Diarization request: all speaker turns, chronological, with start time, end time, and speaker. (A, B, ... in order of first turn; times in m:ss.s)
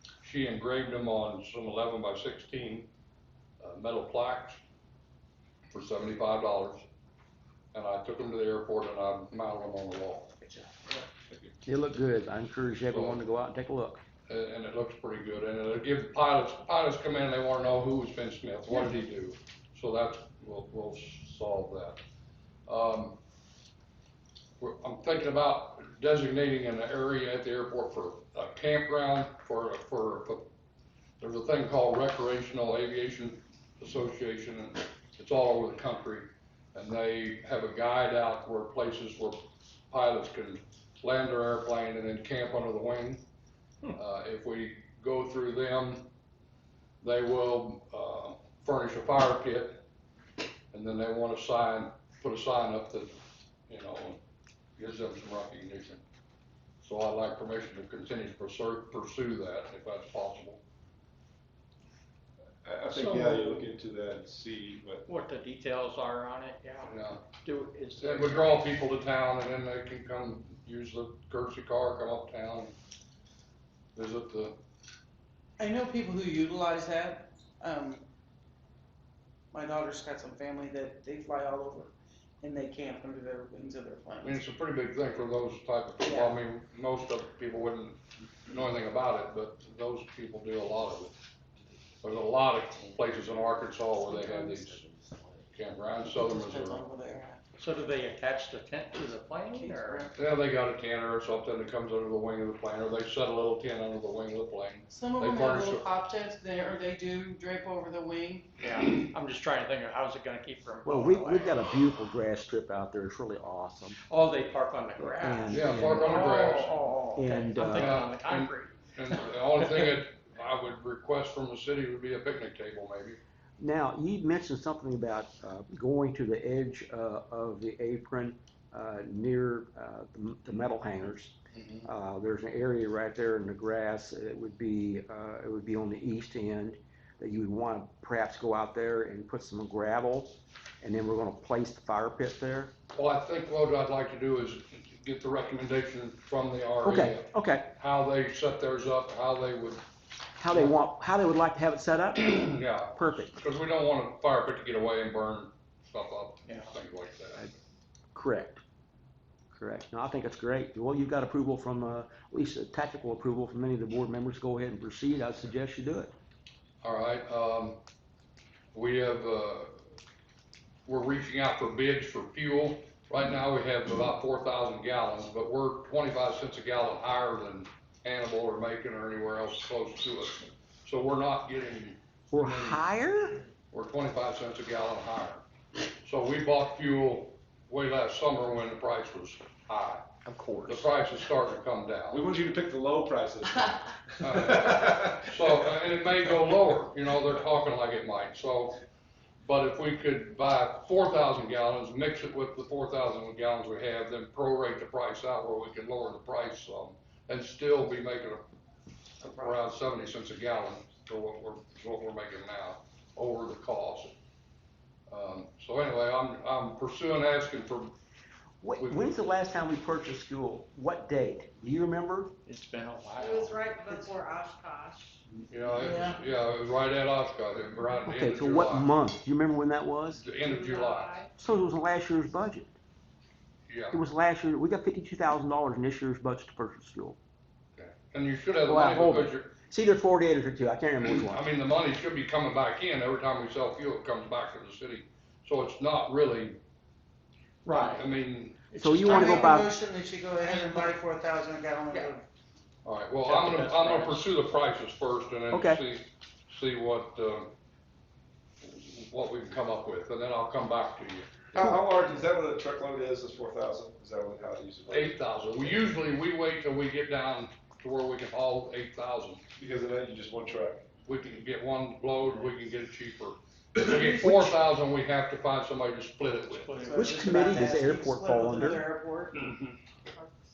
0:00.2-0:02.9 A
0:03.6-0:04.6 A
0:05.7-0:06.8 A
0:07.7-0:10.4 A
0:11.7-0:14.0 B
0:12.9-0:13.2 A
0:14.3-0:22.0 A
0:22.7-0:23.2 A
0:24.6-0:30.5 A
0:31.2-0:43.2 A
0:43.9-0:46.1 A
0:47.0-0:49.8 A
0:50.7-0:53.1 A
0:53.7-0:54.2 A
0:54.8-0:56.0 A
0:56.8-1:00.6 A
1:02.6-1:05.0 C
1:02.9-1:03.6 D
1:05.1-1:08.6 D
1:06.8-1:07.3 A
1:08.0-1:12.7 A
1:14.0-1:14.6 A
1:15.6-1:18.0 E
1:19.5-1:24.4 E
1:24.2-1:31.1 A
1:26.1-1:26.3 E
1:32.0-1:34.8 A
1:35.5-1:36.8 A
1:36.1-1:37.4 E
1:37.6-1:40.1 D
1:39.5-1:40.1 E
1:40.2-1:45.9 A
1:44.9-1:48.6 E
1:48.6-1:51.6 D
1:50.8-1:54.0 B
1:54.1-1:59.9 D
1:55.2-1:56.3 B
1:55.5-1:56.8 A
1:56.0-1:57.2 E
1:57.2-1:58.0 B
1:57.6-2:03.2 A
2:03.6-2:22.7 B
2:11.5-2:11.9 A
2:22.9-2:29.8 A
2:26.8-2:27.7 B
2:30.4-2:33.4 B
2:32.4-2:37.6 A
2:36.5-2:36.7 D
2:38.1-2:38.6 B
2:39.5-2:46.1 B
2:46.8-2:47.8 A
2:48.7-2:49.8 A
2:50.9-3:02.8 A
3:02.3-3:03.4 B
3:03.7-3:05.4 A
3:06.0-3:10.1 A
3:10.2-3:10.9 B
3:10.7-3:12.3 A
3:12.1-3:15.5 C
3:14.2-3:18.8 A
3:19.4-3:28.4 A
3:29.2-3:34.1 A
3:35.1-3:37.9 A
3:38.6-3:42.3 B
3:38.8-3:39.1 A
3:42.5-3:43.6 D
3:43.2-3:45.2 F
3:43.9-3:44.2 E
3:45.5-3:48.9 A
3:45.8-3:46.2 E
3:48.0-3:50.4 B
3:50.2-3:51.2 A
3:50.4-3:51.3 F
3:51.4-3:52.8 B
3:53.7-3:54.0 A
3:53.9-3:57.2 B
3:57.8-3:59.5 A
3:58.6-4:01.4 B
4:01.0-4:06.6 A
4:07.6-4:08.1 D
4:07.7-4:08.6 A
4:08.7-4:09.6 D
4:08.8-4:09.7 B
4:09.0-4:12.2 E
4:12.8-4:17.5 A
4:13.2-4:14.2 D
4:15.5-4:15.8 B
4:18.6-4:21.3 A
4:21.5-4:25.9 C
4:24.9-4:29.4 A
4:29.6-4:30.9 C
4:31.0-4:36.8 A
4:33.9-4:34.5 B
4:36.6-4:37.6 D
4:36.8-4:39.5 E
4:36.9-4:38.8 B